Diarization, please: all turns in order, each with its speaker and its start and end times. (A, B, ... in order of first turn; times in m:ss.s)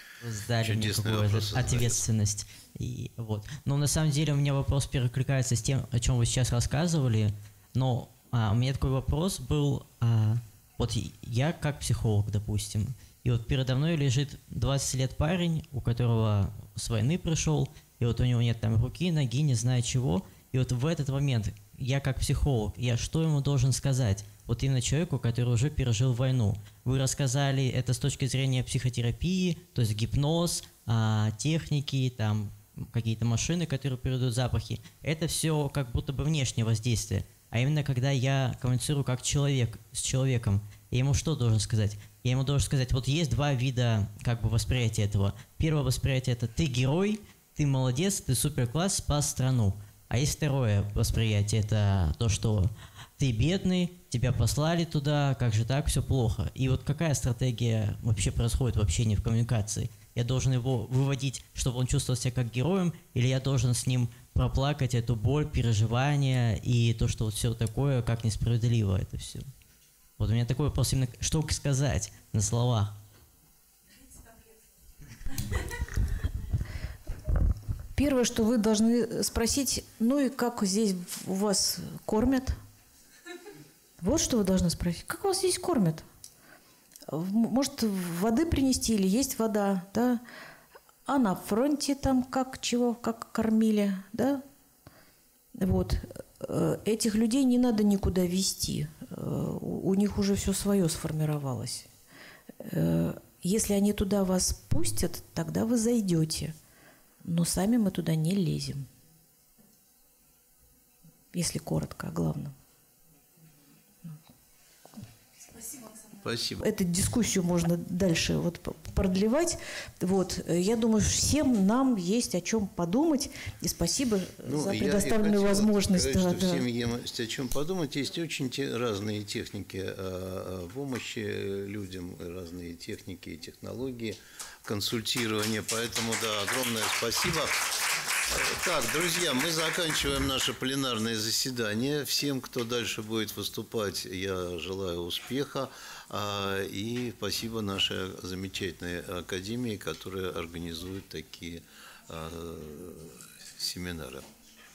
0:00.2-1:09.5 A
0:00.6-0:02.0 B
1:10.2-1:12.9 A
1:17.9-1:22.6 C
1:24.0-1:26.1 C
1:27.1-1:30.2 C
1:31.0-1:34.4 C
1:35.6-1:41.9 C
1:42.6-1:46.5 C
1:47.2-1:48.9 C
1:51.3-1:52.5 C
1:56.1-1:56.6 B
1:56.6-2:06.6 C
2:04.4-2:34.2 B